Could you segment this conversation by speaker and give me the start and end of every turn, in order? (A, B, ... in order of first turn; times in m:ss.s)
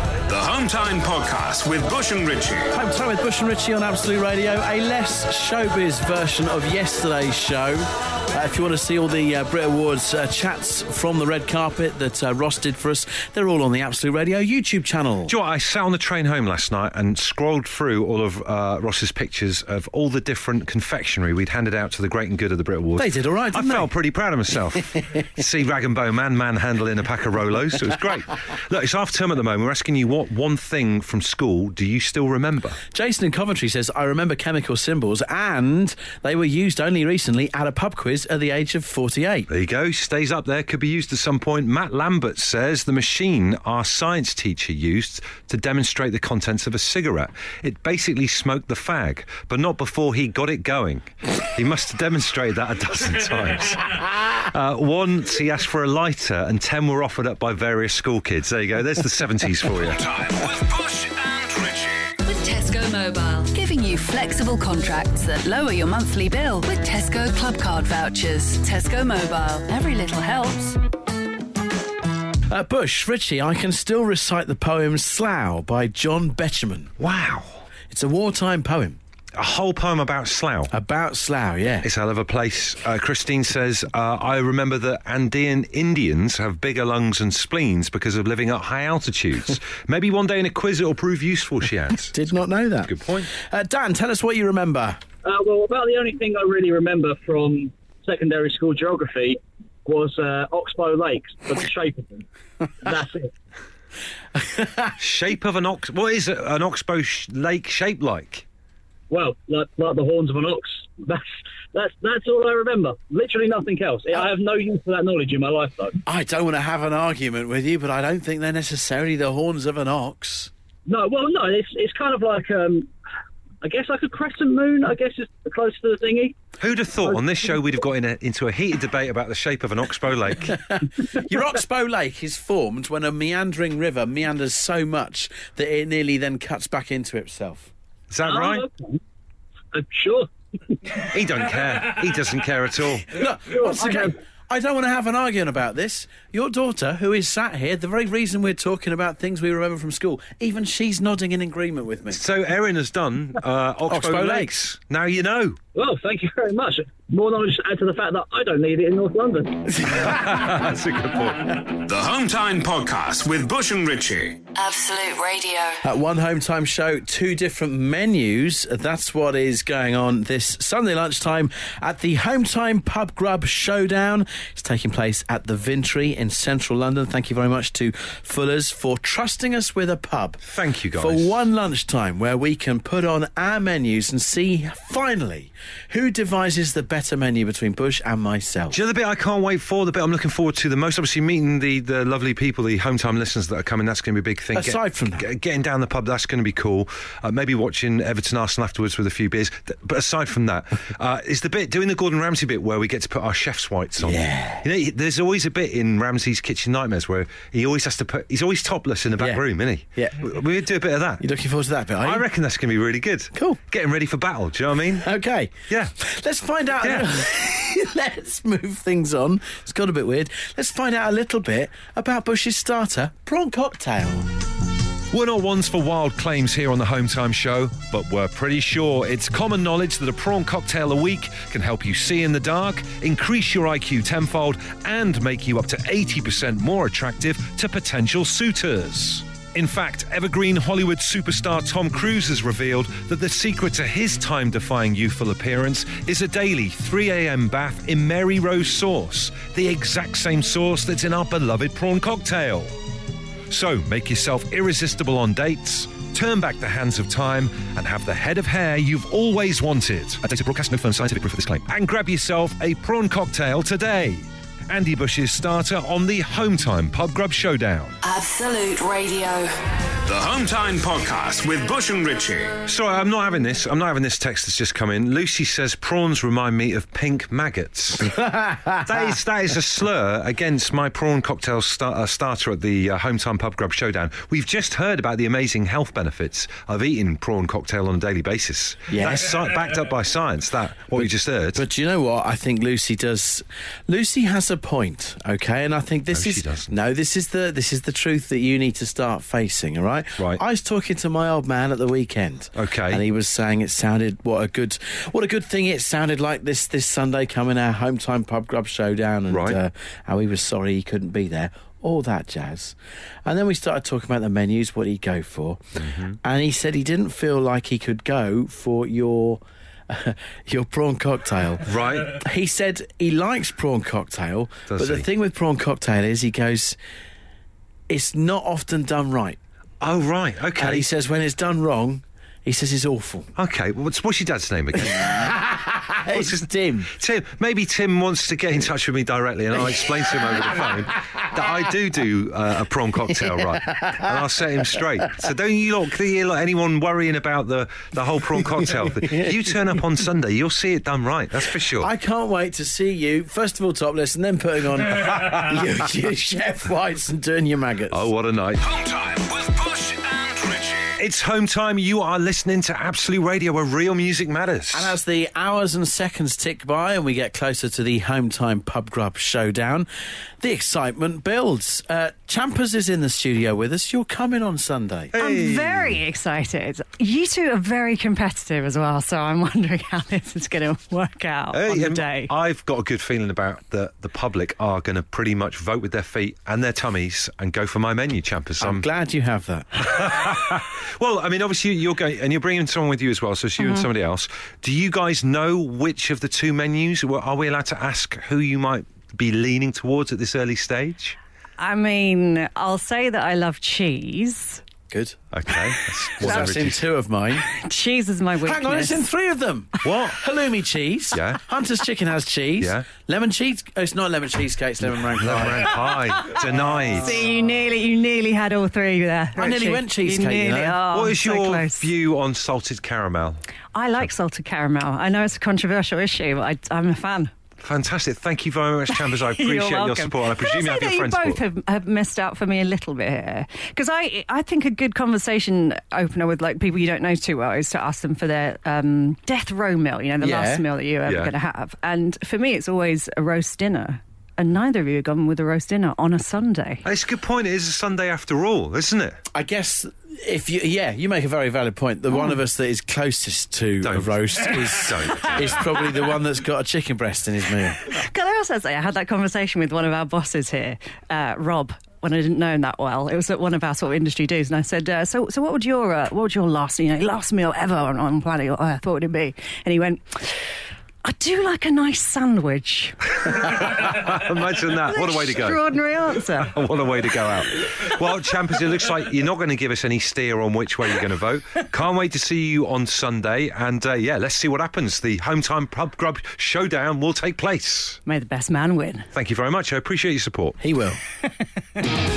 0:00.3-0:02.7 A
0:02.7-0:15.3 B
0:15.3-0:32.8 C
0:23.0-0:23.9 B
0:32.9-0:39.5 B
0:39.5-1:00.0 C
0:59.8-1:02.2 A
1:02.2-1:10.8 D
1:12.5-1:16.9 B
1:17.0-1:17.6 C
1:17.9-1:19.0 B
1:19.3-1:20.7 C
1:20.7-1:21.9 B
1:21.8-1:32.2 C
1:32.1-1:35.0 B
1:32.8-1:33.3 C
1:35.2-1:42.3 E
1:42.8-1:43.3 E
1:44.4-1:44.9 B
1:45.0-1:48.4 C
1:49.1-1:56.0 E
1:56.0-2:00.5 B
2:00.8-2:02.9 E
2:03.6-2:06.4 E
2:06.6-2:10.6 C
2:10.5-2:17.7 B
2:18.1-2:18.7 C
2:18.2-2:19.0 E
2:19.7-2:21.0 E
2:21.1-2:23.2 C
2:23.1-2:32.2 B
2:23.5-2:24.1 E
2:32.1-2:35.6 C
2:33.9-2:34.5 B
2:35.8-2:39.8 E
2:39.9-2:41.6 C
2:41.8-2:44.4 A
2:44.5-2:45.8 F
2:45.8-3:00.4 B
3:00.4-3:01.4 C
3:00.9-3:08.8 B
3:08.7-3:31.2 C
3:14.5-3:15.2 B
3:24.0-3:24.6 B
3:29.2-3:29.4 B
3:29.9-3:30.2 B
3:31.2-3:32.2 B
3:32.0-3:35.1 C
3:33.3-3:33.6 B
3:35.0-3:44.3 B
3:35.7-3:35.9 C
3:36.8-3:37.1 C
3:45.1-4:12.7 C
4:13.5-4:28.0 C
4:28.0-4:29.5 F
4:30.0-4:32.6 A
4:32.6-4:38.2 C
4:38.1-4:39.1 B
4:38.8-4:51.6 C
4:48.9-4:49.4 B
4:51.5-5:26.8 B
4:56.1-4:56.7 C
5:02.6-5:03.0 C
5:09.3-5:09.6 C
5:15.8-5:16.2 C
5:21.6-5:22.2 C
5:24.7-5:25.1 C
5:27.9-5:29.4 B
5:29.8-5:30.8 C
5:30.6-5:33.3 B
5:33.4-5:35.4 C
5:34.9-5:36.9 B
5:36.1-5:51.9 C
5:43.6-5:44.0 B
5:51.8-5:58.1 B
5:57.9-5:58.6 C
5:58.6-6:01.0 A
6:01.0-6:05.0 C
6:04.7-6:09.9 B
6:10.4-6:15.1 B
6:15.1-6:16.0 C
6:15.2-6:22.3 G
6:21.5-6:28.8 C
6:28.6-6:29.7 B
6:29.8-6:41.2 C
6:33.6-6:33.9 G
6:41.6-6:44.6 G
6:44.9-6:45.2 B
6:45.3-6:46.8 C
6:46.2-6:47.5 B
6:47.5-6:49.1 G
6:48.4-6:55.9 B
6:49.8-6:50.2 C
6:51.1-6:51.4 C
6:52.6-6:52.8 C
6:55.2-6:57.2 C
6:56.9-7:01.9 G
6:59.4-7:00.8 B
7:00.9-7:03.4 C
7:03.7-7:07.3 G
7:07.6-7:11.4 C
7:08.9-7:26.8 G
7:20.2-7:20.6 B
7:21.0-7:21.3 C
7:26.8-7:29.2 C
7:29.3-7:37.9 B
7:33.8-7:35.6 C
7:37.9-7:50.4 G
7:51.0-7:53.6 G
7:53.2-7:55.7 C
7:54.9-7:56.6 G
7:56.4-8:08.0 C
8:08.0-8:09.1 G
8:09.1-8:10.6 C
8:10.6-8:11.0 B